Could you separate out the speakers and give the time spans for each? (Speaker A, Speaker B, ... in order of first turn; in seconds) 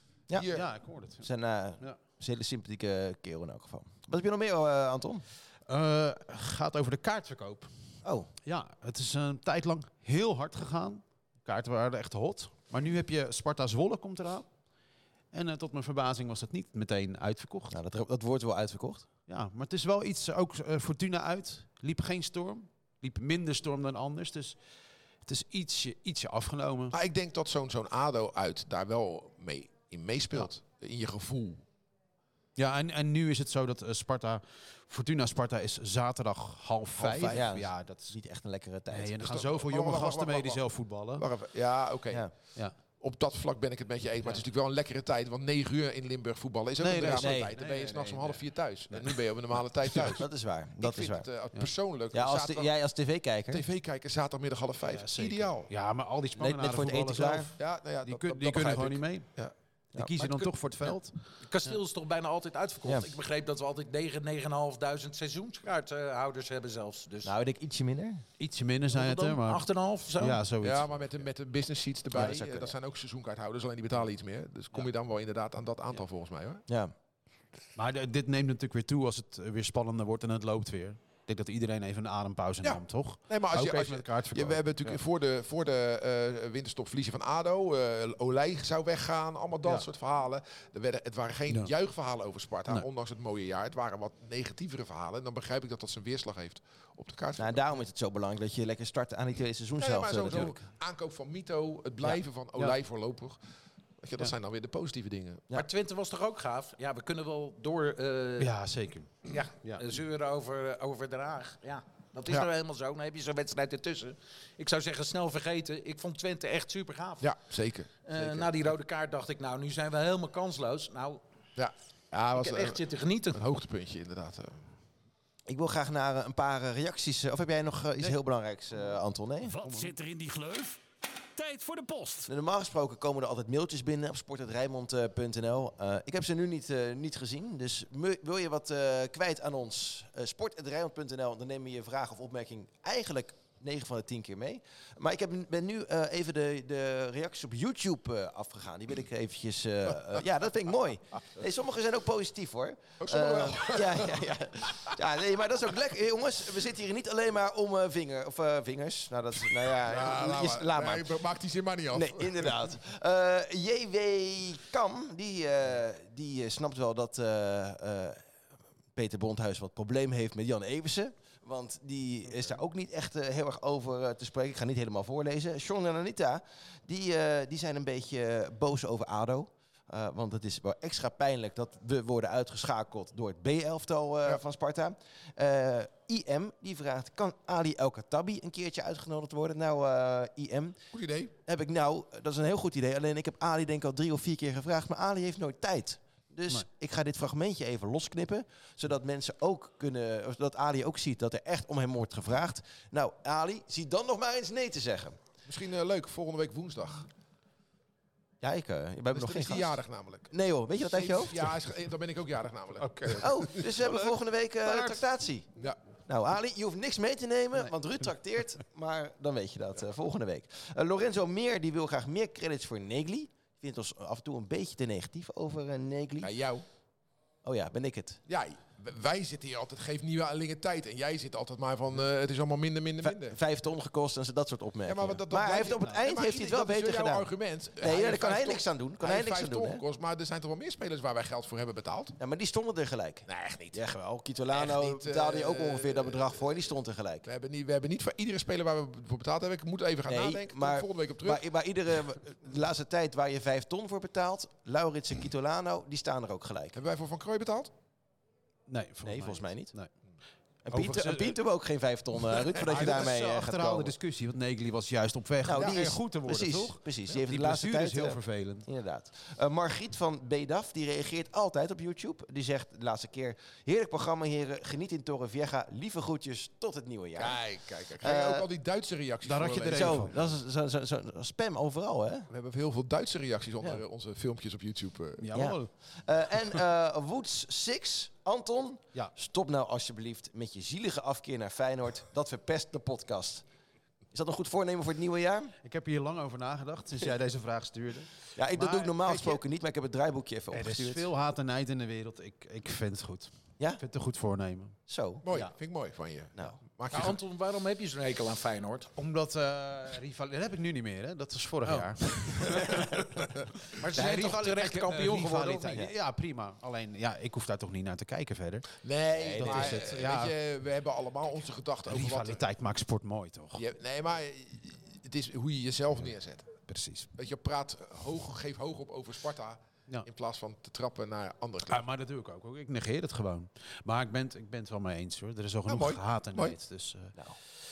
Speaker A: 0.3-0.7, 26.9-31.6, 37.0-37.5, 39.2-42.3, 43.0-50.2, 50.8-52.7, 53.5-55.7, 57.6-59.5, 70.6-76.6, 82.6-97.7, 99.8-103.4, 104.0-105.5, 117.2-118.5, 121.6-122.8, 123.3-124.6, 153.0-154.2, 159.8-162.6, 190.9-191.3, 205.5-207.1, 209.1-213.7, 226.2-226.7, 228.3-233.4, 234.9-242.2, 243.3-243.8, 244.5-246.6, 247.2-251.4, 256.7-257.7, 265.5-265.9, 277.2-280.3, 282.3-285.3, 299.1-299.4, 305.2-307.2, 311.7-312.9, 318.8-322.5, 323.6-326.6, 327.2-331.9, 335.7-336.6
Speaker B: 0.5-1.3, 5.7-7.7, 8.4-14.5, 15.3-17.8, 19.3-24.6, 25.2-26.9, 32.6-38.1, 38.9-41.3, 46.8-49.2, 49.9-50.2, 54.8-59.3, 60.0-61.1, 68.4-69.6, 70.2-71.1, 77.8-85.0, 102.1-102.8, 108.4-109.8, 129.6-129.9, 212.8-214.1, 214.7-215.0, 258.7-259.9, 260.7-261.4, 262.6-268.7, 279.2-280.1, 285.2-285.7, 295.6-299.0, 300.5-304.8, 309.0-318.8, 319.4-320.3, 321.9-323.6, 326.7-327.1, 331.7-337.2
Speaker C: 1.2-5.2, 8.0-8.3, 17.7-19.1, 37.1-39.3, 47.1-47.5, 50.1-51.3, 52.1-53.6, 56.4-57.5, 62.8-63.1, 67.2-68.2, 72.1-72.8, 76.7-76.9, 97.4-100.6, 125.5-129.6, 132.3-161.2, 161.9-168.2, 168.9-190.8, 191.5-205.2, 208.4-211.5, 213.2-215.5, 216.1-226.3, 227.4-228.2, 233.0-239.8, 242.2-247.3, 250.1-256.8, 259.0-259.7, 260.6-263.9, 265.5-277.4, 278.0-278.5, 279.6-282.3, 285.3-293.4, 294.1-295.6, 298.4-301.1, 304.9-305.2, 314.0-314.4, 315.6-316.0, 319.1-319.9
Speaker D: 60.2-60.5, 61.5-67.3, 68.9-70.4, 105.5-108.5, 109.3-117.3, 118.1-121.2, 122.4-123.4, 306.9-308.9, 313.8-315.8
Speaker E: 129.5-130.8, 131.3-132.3